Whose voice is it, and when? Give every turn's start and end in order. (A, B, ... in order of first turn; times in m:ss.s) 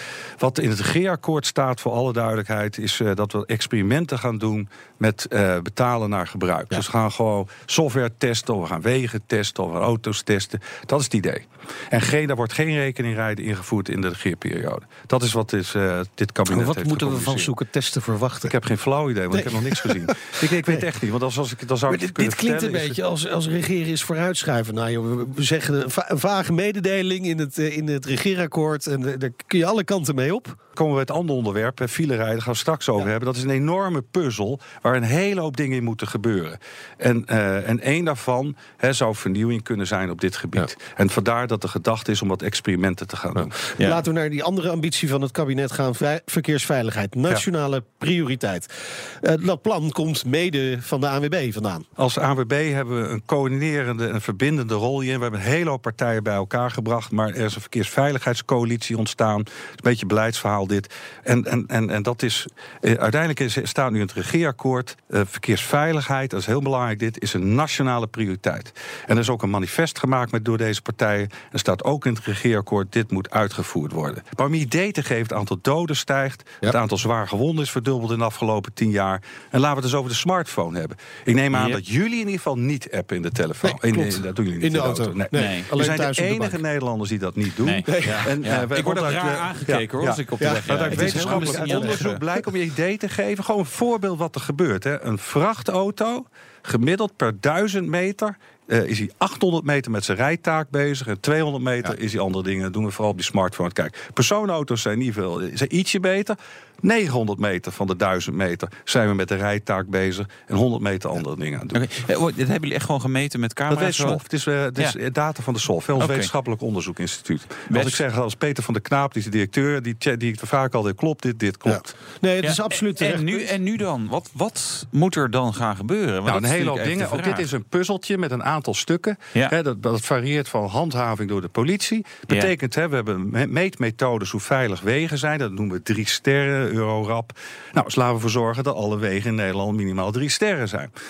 0:00.4-0:17.5 A
0:16.5-0:18.5 B
0:18.5-0:23.0 A
0:19.3-0:20.9 B
0:21.9-0:30.6 B
0:30.8-0:43.6 A
0:43.4-0:51.8 B
0:52.0-1:51.8 A
1:21.5-1:21.8 C
1:23.6-1:26.6 B
1:25.3-1:25.7 C
1:27.6-1:32.1 C
1:27.9-1:28.3 B
1:30.4-1:32.2 B
1:51.7-1:54.2 C
1:53.7-2:01.9 A
1:56.0-1:56.3 C
1:57.7-1:58.0 C
2:01.6-2:03.5 B
2:02.4-2:07.5 C
2:06.3-2:20.9 A